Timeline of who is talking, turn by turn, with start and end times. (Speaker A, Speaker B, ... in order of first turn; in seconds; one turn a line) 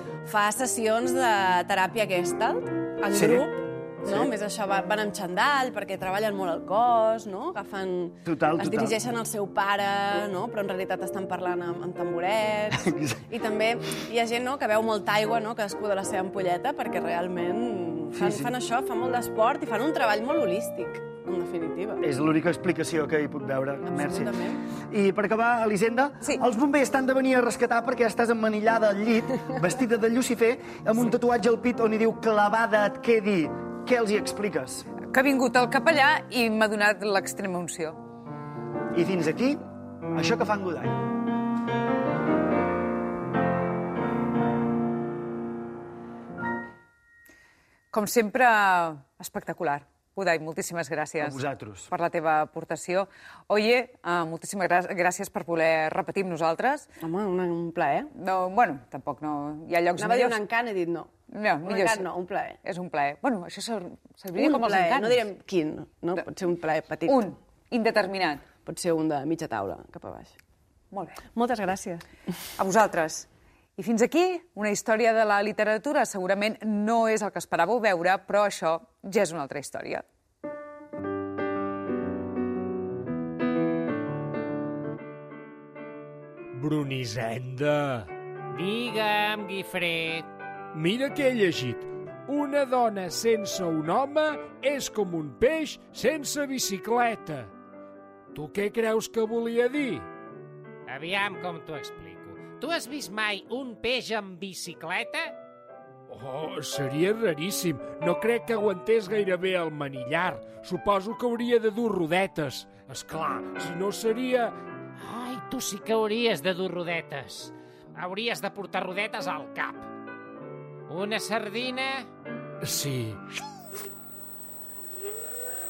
Speaker A: 0.2-22.0
Speaker B: 3.1-3.5
Speaker B: 4.0-4.3
Speaker B: 8.2-9.0
Speaker B: 12.8-13.2
Speaker B: 18.1-18.5
Speaker B: 22.0-34.9
Speaker A: 23.9-24.6
Speaker C: 35.0-38.0
Speaker B: 38.9-39.6
Speaker B: 40.1-41.0
Speaker C: 47.9-56.9
Speaker B: 51.2-51.9
Speaker A: 57.0-58.1
Speaker C: 58.1-60.4
Speaker A: 60.0-61.1
Speaker C: 61.3-62.1
Speaker A: 61.6-62.6
Speaker C: 62.6-65.3
Speaker A: 64.3-67.3
Speaker C: 67.0-68.4
Speaker A: 68.7-70.3
Speaker C: 70.9-71.2
Speaker A: 71.3-72.0
Speaker C: 72.6-80.0
Speaker D: 86.5-88.1
Speaker E: 88.5-90.3
Speaker D: 90.7-97.5
Speaker D: 98.3-100.1
Speaker E: 100.9-105.3
Speaker D: 106.1-114.5
Speaker E: 115.0-119.9
Speaker E: 120.9-122.1
Speaker D: 122.6-123.2